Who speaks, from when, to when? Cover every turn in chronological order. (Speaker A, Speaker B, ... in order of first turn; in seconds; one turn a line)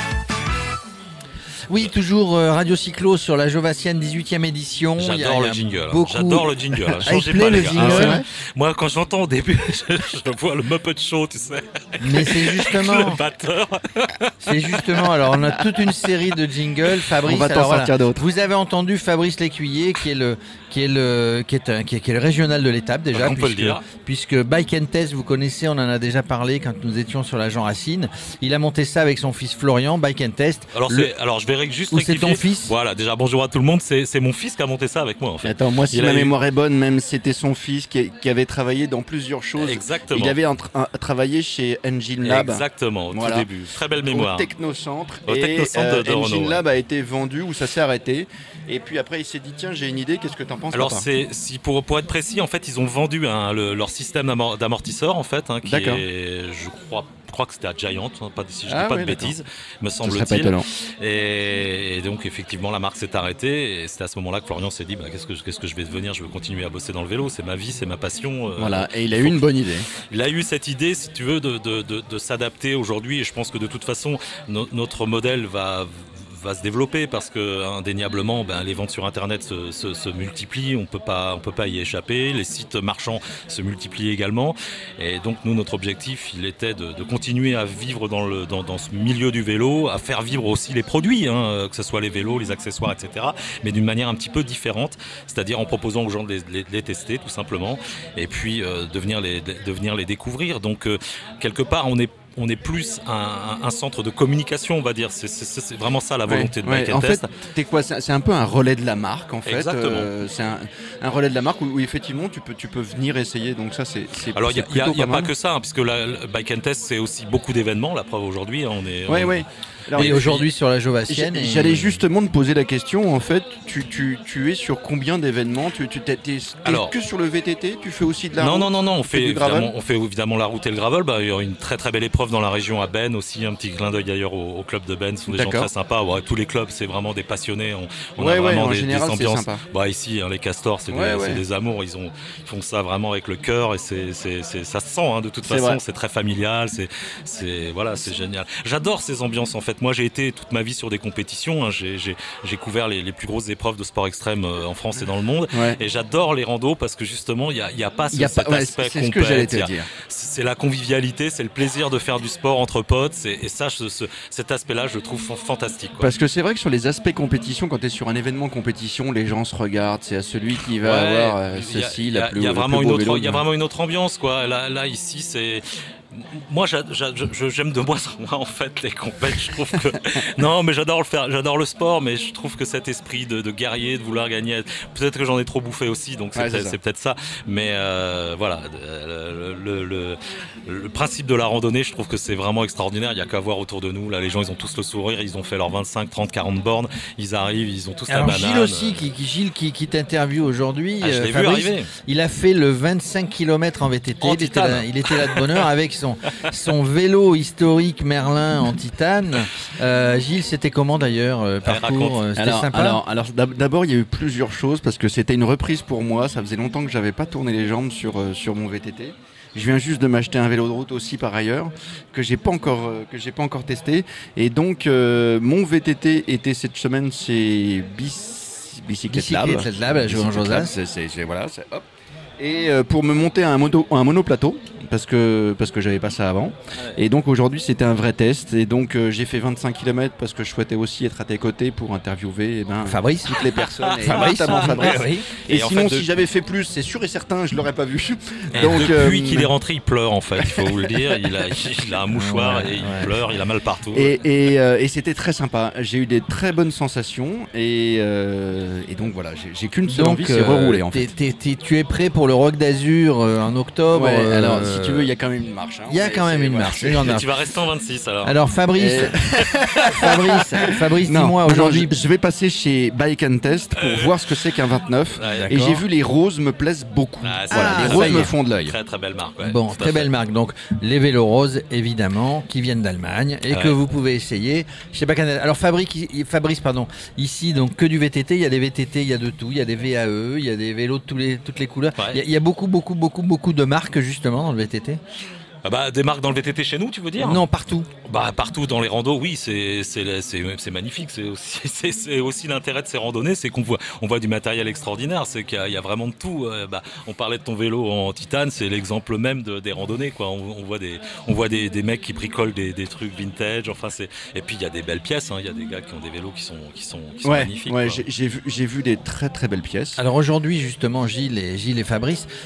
Speaker A: 1.7-8.2
Speaker B: 5.0-16.1
Speaker C: 7.8-8.2
Speaker A: 12.0-13.2
Speaker A: 14.4-31.1
Speaker C: 17.2-18.2
Speaker B: 23.1-23.8
Speaker B: 30.7-36.3
Speaker A: 31.9-32.8
Speaker C: 35.4-43.5
Speaker B: 39.5-40.4
Speaker B: 42.2-44.5
Speaker C: 44.1-51.1
Speaker B: 45.2-46.6
Speaker B: 50.7-69.4
Speaker C: 55.6-56.0
Speaker C: 58.7-59.4
Speaker C: 60.0-60.6
Speaker C: 68.6-69.9
Speaker B: 70.1-107.3
Speaker C: 106.2-115.3
Speaker B: 109.4-110.1
Speaker B: 114.3-120.5
Speaker C: 119.1-120.4
Speaker A: 120.0-122.0
Speaker C: 121.1-129.7
Speaker B: 126.6-126.9
Speaker B: 128.4-166.1
Speaker C: 135.3-135.7
Speaker C: 138.2-139.6
Speaker C: 140.9-141.4
Speaker C: 145.4-145.8
Speaker C: 155.5-155.8
Speaker C: 158.1-159.9
Speaker C: 166.0-173.4
Speaker B: 170.7-199.1
Speaker C: 186.3-186.8
Speaker A: 198.1-213.0
Speaker B: 201.0-201.9
Speaker B: 204.2-205.7
Speaker B: 211.6-212.3
Speaker C: 212.3-231.9
Speaker A: 229.1-230.7
Speaker C: 232.4-249.5
Speaker A: 242.8-243.5
Speaker B: 243.7-246.1
Speaker A: 244.1-245.3
Speaker B: 248.5-254.2
Speaker C: 250.4-250.8
Speaker A: 252.1-253.1
Speaker C: 253.9-261.1
Speaker A: 259.9-265.1
Speaker C: 263.9-267.2
Speaker A: 265.9-267.3
Speaker B: 267.0-268.4
Speaker A: 268.2-269.2
Speaker C: 268.8-278.7
Speaker A: 269.8-271.9
Speaker B: 273.7-274.3
Speaker B: 275.1-275.6
Speaker A: 275.3-275.8
Speaker B: 277.2-280.1
Speaker A: 277.5-278.3
Speaker A: 279.4-295.0
Speaker B: 283.5-283.8
Speaker B: 295.6-297.4
Speaker A: 297.2-297.9
Speaker B: 298.1-318.0
Speaker C: 317.2-320.0
Speaker A: 320.0-322.3